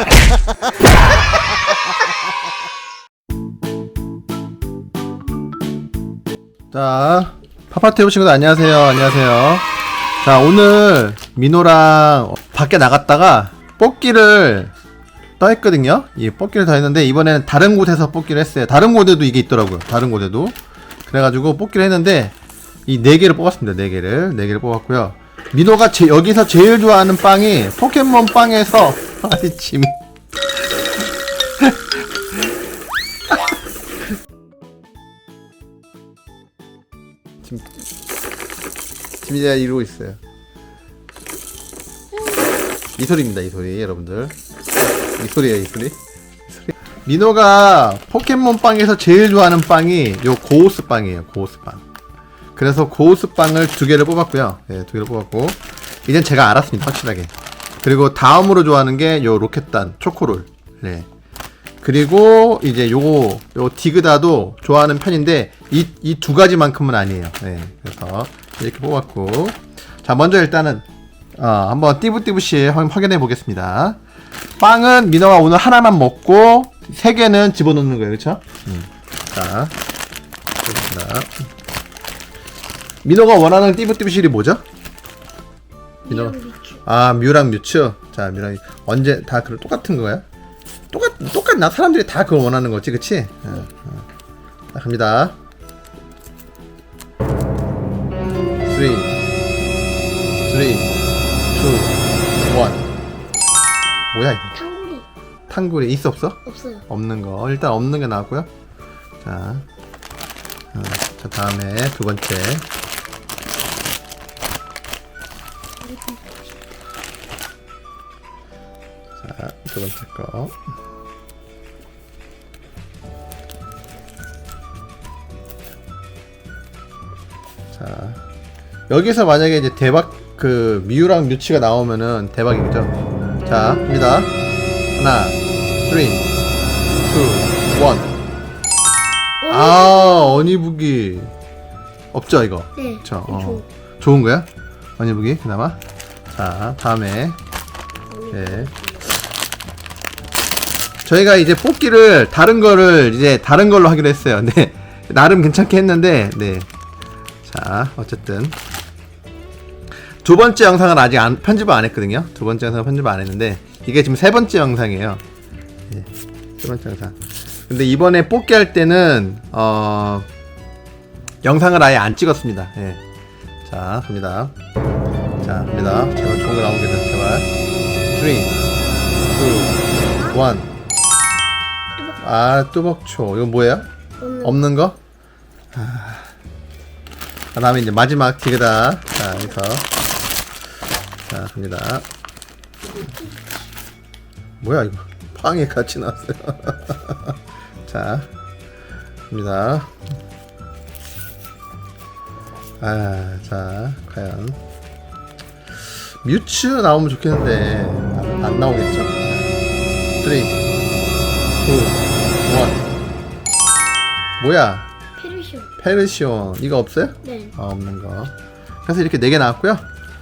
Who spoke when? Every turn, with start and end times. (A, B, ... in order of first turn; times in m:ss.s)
0:06.7-0:09.7 A
0:10.2-0:14.7 A
0:15.4-0:22.4 A
0:22.9-0:30.0 A
0:39.2-0:40.2 A
0:43.0-0:44.4 A
0:45.2-0:46.0 A
0:46.5-0:51.8 A
0:52.6-1:01.1 A
1:01.8-1:10.8 A
1:11.4-1:14.0 A
1:14.6-1:19.7 A
1:20.6-1:21.3 A
1:23.0-1:24.6 A
1:26.1-1:26.8 B
1:26.1-1:30.2 A
1:30.9-1:34.1 A
1:34.7-1:35.4 A
1:38.6-1:39.2 A
1:40.4-1:40.9 A
1:41.5-1:42.8 A
1:44.1-1:44.6 A
1:44.5-1:45.1 B
1:45.5-1:48.5 A
1:46.5-1:46.8 B
1:49.2-1:49.6 A
1:50.7-1:52.7 A
1:55.8-1:56.4 B
1:59.2-2:00.6 A
2:07.7-2:08.2 A
2:08.9-2:12.9 A
2:13.5-2:14.3 A
2:15.0-2:16.3 A
2:17.0-2:18.1 A
2:19.4-2:20.5 B
2:19.5-2:21.3 A
2:22.1-2:25.8 A
2:22.8-2:23.6 B
2:26.3-2:27.4 A
2:28.1-2:29.2 B
2:28.3-2:28.7 A
2:31.0-2:36.7 A
2:37.4-2:38.6 A
2:40.2-2:45.2 A
2:45.9-2:50.3 A
2:51.4-2:53.0 A
2:53.6-2:54.5 A
2:55.4-2:57.5 A
2:58.1-2:58.5 A
2:59.3-3:00.7 A
2:59.4-2:59.8 B
3:02.2-3:03.9 A
3:04.2-3:04.7 B
3:04.4-3:05.0 A
3:05.7-3:06.3 A
3:07.6-3:09.9 A
3:11.3-3:12.1 A
3:13.0-3:13.4 B
3:14.6-3:17.3 A
3:17.9-3:18.3 A
3:19.3-3:19.9 A
3:22.8-3:24.6 A
3:25.9-3:29.5 A
3:30.2-3:30.6 A
3:31.6-3:32.8 A
3:34.4-3:34.9 A
3:35.2-3:35.7 B
3:35.8-3:39.9 A
3:37.2-3:37.5 B